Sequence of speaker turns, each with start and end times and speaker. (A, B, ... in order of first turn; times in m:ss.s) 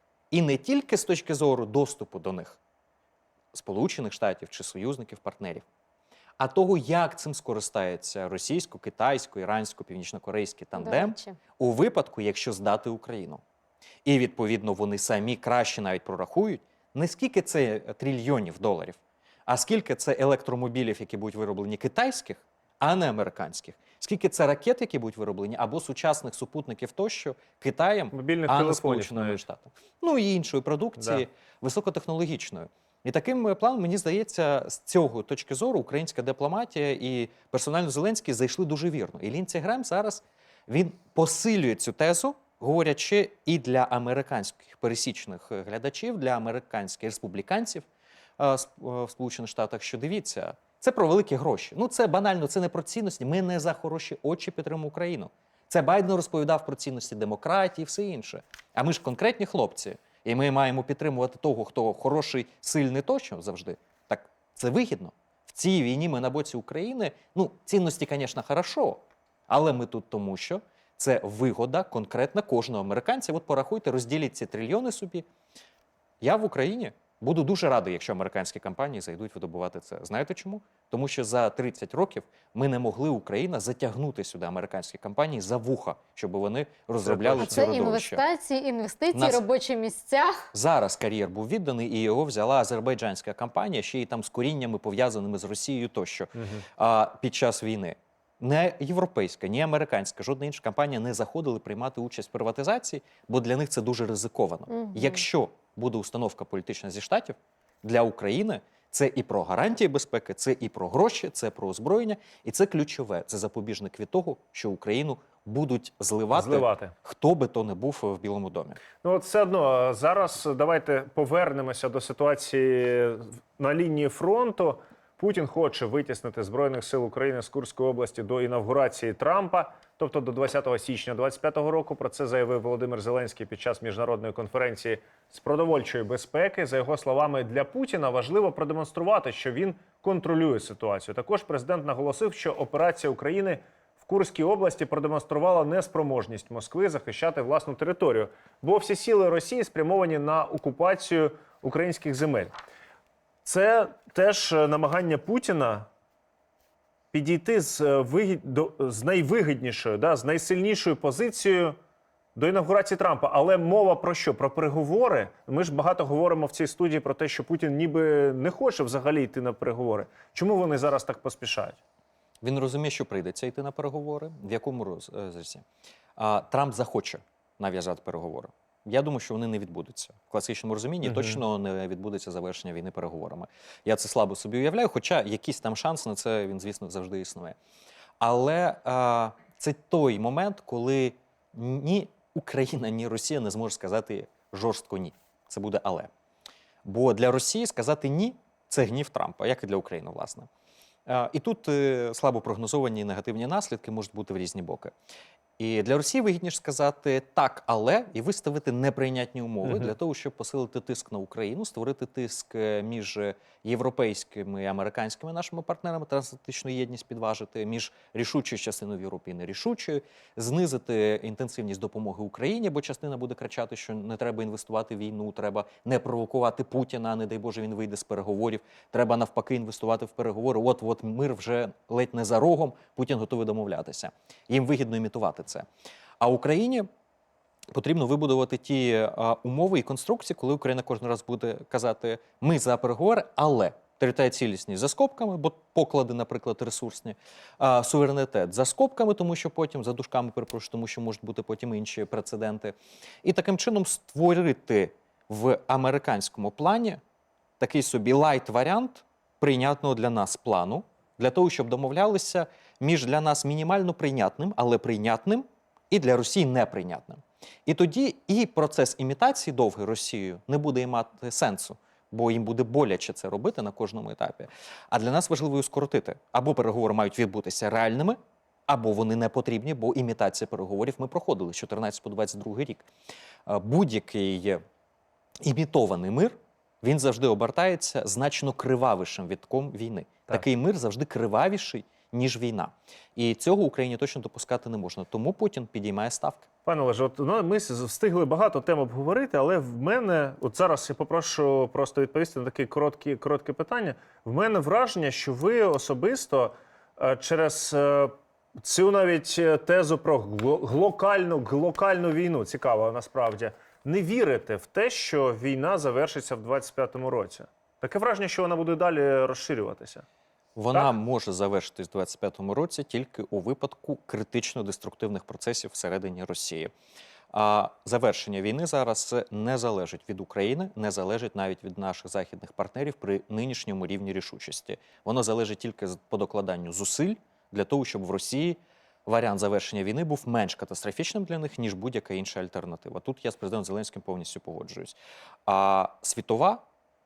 0:00.3-0:02.6 A
0:03.5-0:05.6 A
0:06.4-0:13.4 A
0:10.8-0:11.4 B
0:14.0-0:47.9 A
0:28.1-0:29.4 C
0:48.4-1:15.2 A
1:16.2-1:28.2 A
1:27.0-1:27.7 C
1:27.4-1:30.4 B
1:29.1-1:29.4 A
1:30.5-1:58.8 A
1:36.4-1:36.6 C
1:44.7-1:45.0 B
1:56.3-1:56.9 C
1:59.0-2:32.5 C
2:33.4-2:35.9 C
2:37.1-2:41.8 C
2:42.4-2:51.8 C
2:52.4-2:55.6 A
2:56.2-3:07.6 A
3:01.0-3:01.4 C
3:08.2-3:16.1 A
3:16.8-3:20.5 A
3:21.1-3:24.9 A
3:25.6-3:55.6 A
3:56.2-3:56.9 A
3:57.7-4:17.0 A
4:17.6-4:42.9 A
4:43.4-4:44.6 A
4:45.4-4:56.5 A
4:56.6-5:20.0 C
5:20.6-5:26.7 A
5:27.3-5:46.6 A